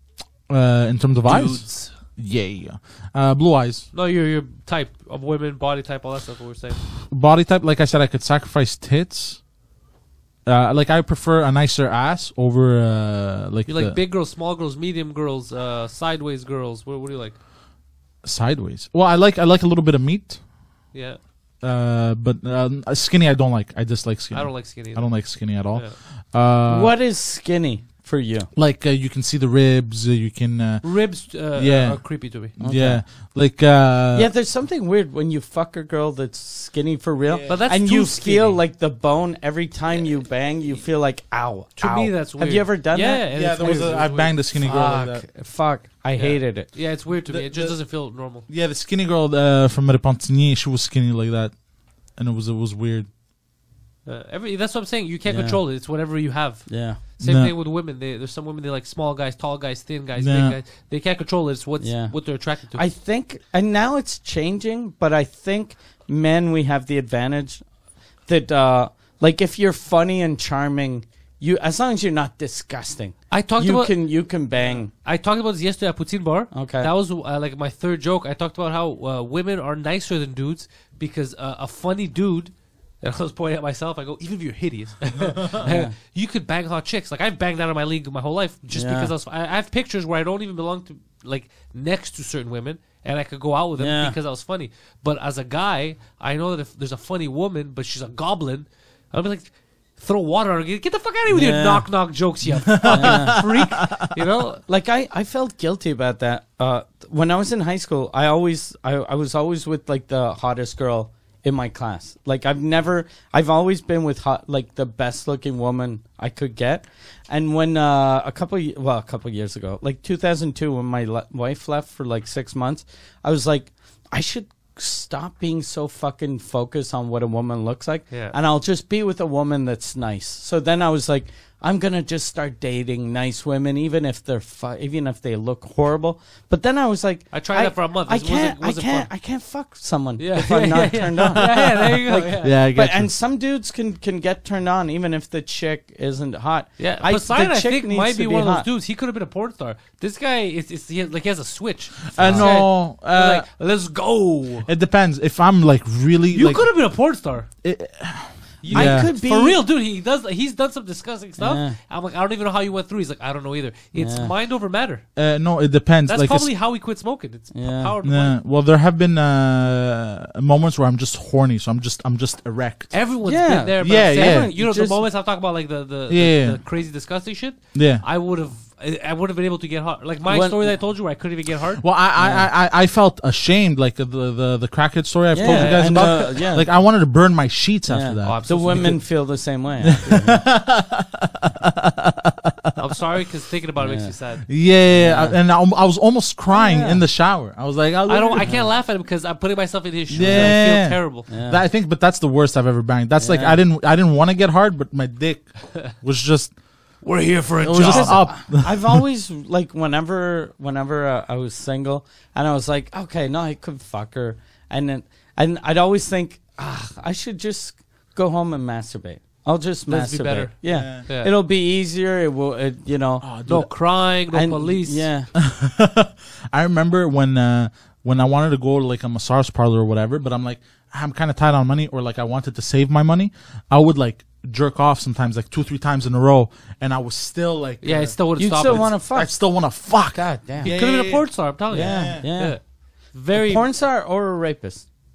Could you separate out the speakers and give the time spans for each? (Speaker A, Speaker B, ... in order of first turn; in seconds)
Speaker A: 0.4-3.9, 7.1-9.5, 10.4-14.0, 18.2-20.9, 21.6-27.0, 28.6-34.4, 37.2-37.7, 43.3-45.3, 47.1-53.1, 57.2-57.5, 60.2-60.6, 102.8-103.5, 141.1-143.1, 152.1-153.5, 154.7-159.1, 165.2-166.6, 168.0-173.1, 173.8-174.5, 176.1-177.1, 177.7-178.1, 181.8-191.8, 194.5-198.6, 200.1-207.0, 207.6-209.0, 220.7-221.1, 223.2-224.0, 225.3-242.5
Speaker B: 1.2-2.0, 3.9-7.0, 13.7-17.4, 20.9-21.2, 24.3-26.0, 30.8-32.5, 37.5-38.7, 41.8-44.4, 46.1-48.5, 54.0-62.9, 73.3-104.6, 128.1-128.4, 137.3-139.1, 140.2-142.6, 146.8-154.7, 156.3-157.6, 158.6-165.2, 166.0-168.4, 172.9-181.8, 185.4-186.1, 188.2-189.0, 192.8-194.5, 198.1-201.3, 207.0-208.2, 219.9-221.3, 223.4-225.1, 237.8-238.9, 240.6-243.7
Speaker C: 26.7-28.5, 32.6-33.1, 34.1-46.9, 55.3-56.1, 56.7-57.0, 61.8-74.9, 76.5-76.9, 85.6-85.9, 88.7-89.1, 93.8-94.2, 101.3-103.6, 104.7-148.7, 152.1-152.6, 158.7-159.7, 161.4-161.8, 163.9-164.3, 167.5-168.0, 173.2-175.1, 180.3-181.3, 182.2-182.5, 185.3-186.7, 187.9-190.6, 193.8-195.4, 196.5-197.1, 198.4-198.8, 200.2-200.6, 201.3-201.6, 203.2-203.6, 207.8-223.3, 224.3-225.3, 238.4-240.7, 241.7-244.9